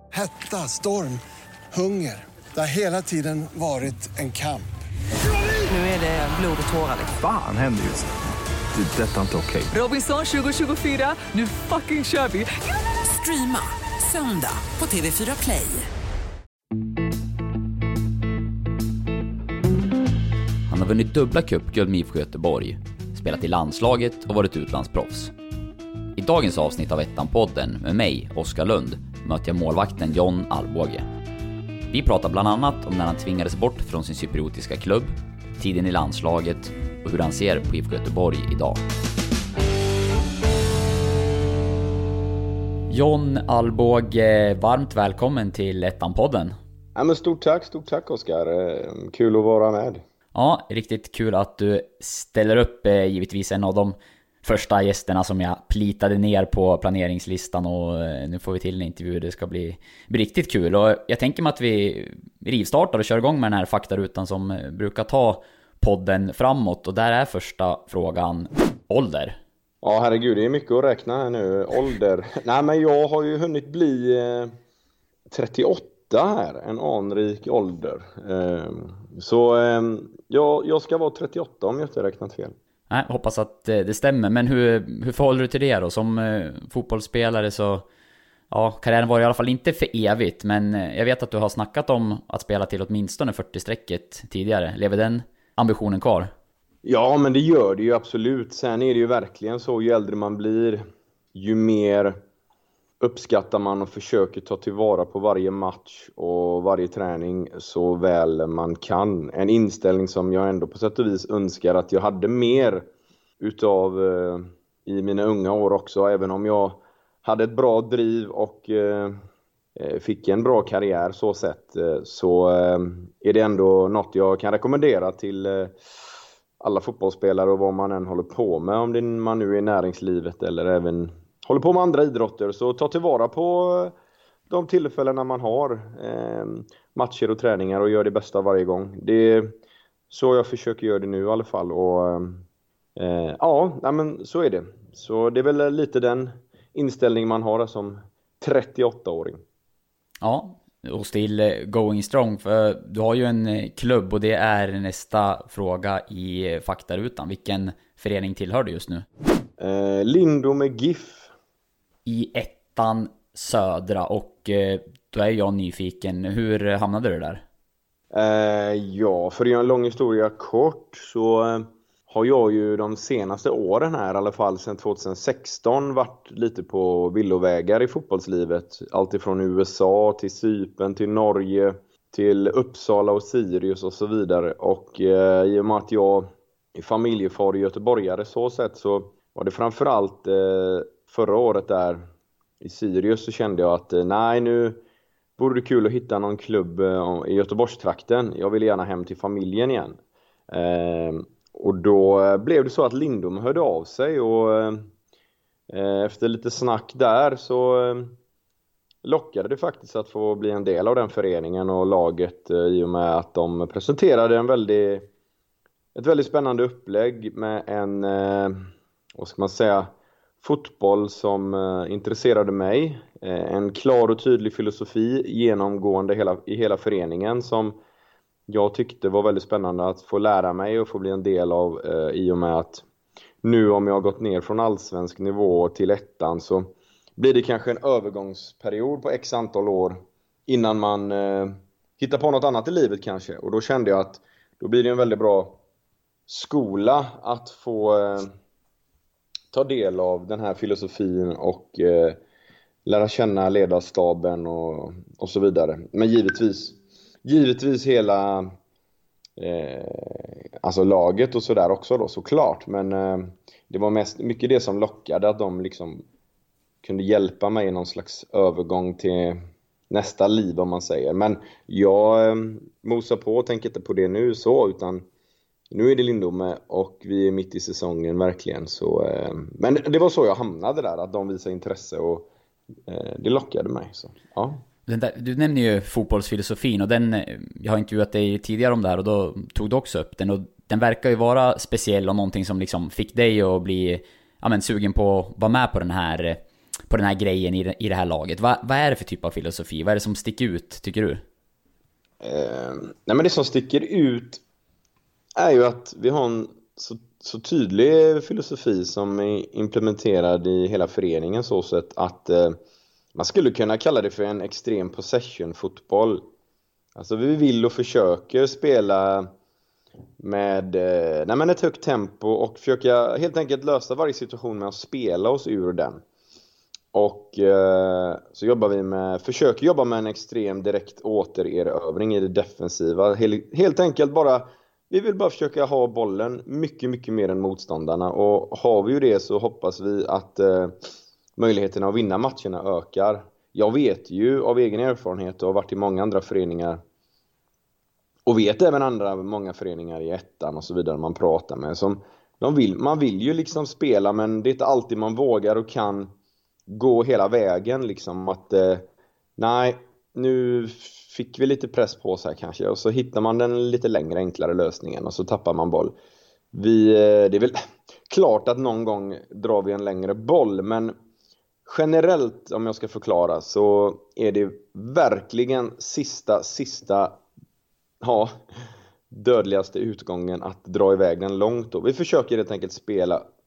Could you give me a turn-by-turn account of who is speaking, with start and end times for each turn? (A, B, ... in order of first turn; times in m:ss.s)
0:00.1-0:01.2 A
0:01.7-0:04.7 A
0:05.7-0:07.1 B
0:07.2-0:08.1 C
0:08.7-0:09.7 C
0:09.7-0:12.5 B
0:13.0-0:15.9 B
0:20.7-0:25.3 D
0:26.2-0:31.1 D
0:31.9-0:38.8 D
0:42.9-0:46.5 D
0:46.9-0:50.0 E
0:50.3-1:09.4 D
1:09.8-1:14.5 E
1:15.3-1:22.6 E
1:22.9-1:27.8 D
1:28.5-1:36.3 D
1:36.8-1:40.8 E
1:41.3-1:42.2 E
1:43.0-1:52.9 E
1:53.4-1:59.2 E
1:59.8-2:05.8 E
2:06.6-2:13.9 E
2:14.5-2:19.6 E
2:20.1-2:22.4 E
2:23.0-2:29.4 E
2:30.2-2:39.0 D
2:39.6-2:41.3 E
2:42.0-2:47.4 D
2:48.1-3:12.1 E
3:12.6-3:14.8 E
3:15.4-3:24.9 E
3:25.7-3:28.2 E
3:29.0-3:35.1 E
3:35.9-3:47.8 E
3:48.5-3:52.8 E
3:53.4-4:05.6 E
4:06.3-4:08.3 E
4:09.5-4:12.2 E
4:12.8-4:18.5 E
4:19.4-4:26.0 E
4:26.8-4:35.0 E
4:35.7-4:42.3 E
4:42.9-4:44.6 E
4:44.9-5:01.2 D
5:02.2-5:04.4 E
5:05.4-5:12.6 E
5:13.1-5:16.3 E
5:16.9-5:19.3 E
5:20.2-5:26.0 E
5:26.9-5:40.8 E
5:41.4-5:46.8 E
5:48.2-5:56.1 E
5:56.7-6:06.0 E
6:06.5-6:07.6 E
6:08.1-6:10.9 E
6:11.6-6:17.2 E
6:18.0-6:18.4 E
6:19.1-6:23.3 E